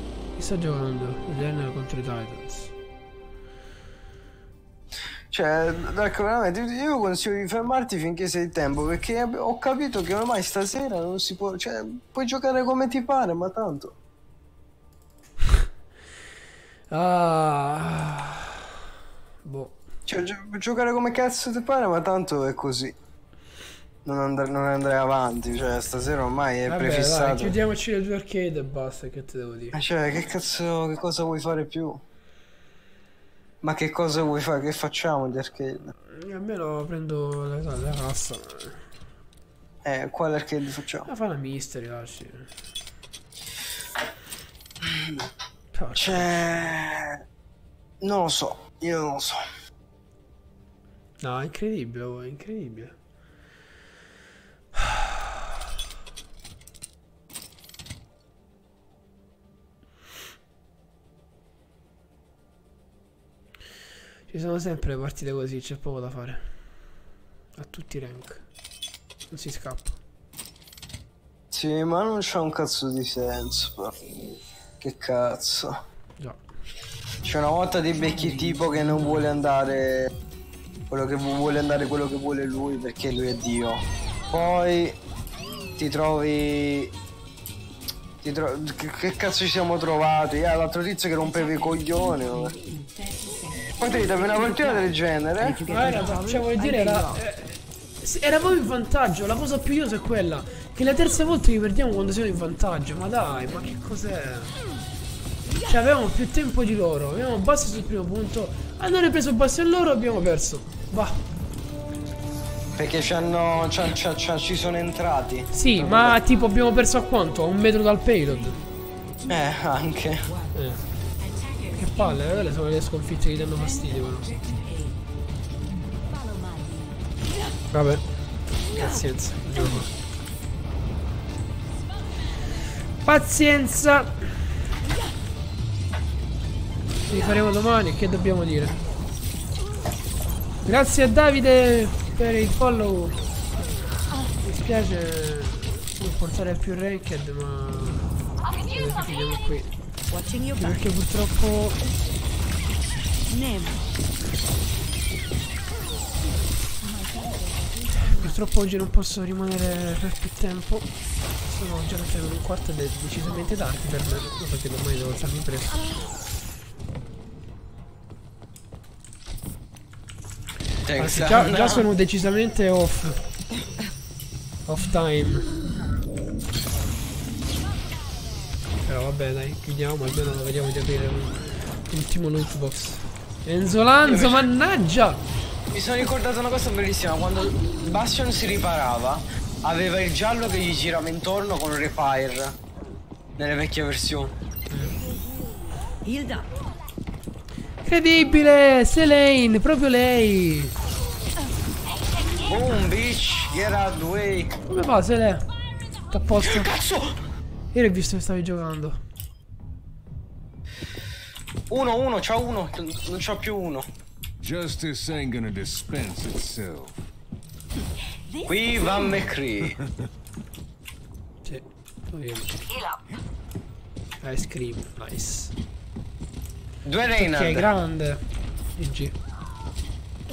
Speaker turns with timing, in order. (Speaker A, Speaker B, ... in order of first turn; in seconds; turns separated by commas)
Speaker A: 0.4-2.7, Speaker B: 5.3-13.9, Speaker A: 16.9-18.7, Speaker A: 19.4-19.8, Speaker B: 20.1-22.9, Speaker B: 24.1-27.6, Speaker A: 26.7-29.8, Speaker B: 29.7-32.0, Speaker B: 33.6-35.9, Speaker A: 36.1-38.8, Speaker B: 39.9-41.1, Speaker A: 41.1-42.5, Speaker B: 44.9-45.2, Speaker A: 45.7-46.4, Speaker B: 46.0-47.2, Speaker B: 48.0-49.4, Speaker A: 51.2-52.9, Speaker A: 54.8-55.3, Speaker A: 64.3-66.5, Speaker A: 67.6-68.4, Speaker A: 69.3-70.0, Speaker B: 71.5-74.0, Speaker B: 74.8-75.8, Speaker B: 77.2-80.1, Speaker C: 78.0-79.3, Speaker B: 80.9-85.0, Speaker B: 85.8-86.9, Speaker B: 88.2-92.5, Speaker C: 91.3-97.2, Speaker B: 93.8-95.6, Speaker A: 95.7-104.6, Speaker A: 105.7-111.2, Speaker B: 112.8-116.2, Speaker A: 115.5-118.6, Speaker C: 118.3-118.7, Speaker B: 119.3-120.3, Speaker C: 120.2-120.6, Speaker A: 120.5-120.8, Speaker C: 121.2-122.4, Speaker A: 121.8-124.3, Speaker C: 123.4-125.0, Speaker C: 126.1-126.9, Speaker A: 127.7-129.9, Speaker A: 133.1-134.3, Speaker A: 137.1-138.8, Speaker A: 140.7-143.2, Speaker A: 144.4-148.1, Speaker A: 148.7-149.7, Speaker C: 150.1-150.8, Speaker A: 150.5-151.8, Speaker C: 153.3-153.7, Speaker A: 158.1-160.9, Speaker A: 161.5-165.8, Speaker B: 170.9-171.8, Speaker A: 171.0-173.2, Speaker A: 174.7-175.5, Speaker A: 178.8-185.2, Speaker B: 184.0-184.5, Speaker B: 185.7-192.6, Speaker B: 193.4-194.3, Speaker A: 194.7-195.0, Speaker C: 196.1-196.5, Speaker A: 197.8-200.7, Speaker B: 202.5-204.5, Speaker A: 204.7-205.5, Speaker A: 206.1-206.7, Speaker B: 206.4-207.2, Speaker A: 207.7-209.0, Speaker B: 211.7-213.9, Speaker D: 214.4-216.9, Speaker C: 218.3-219.0, Speaker B: 218.5-219.8, Speaker A: 221.4-222.6, Speaker A: 224.2-225.5, Speaker B: 226.8-227.7, Speaker A: 227.2-228.2, Speaker A: 228.8-229.2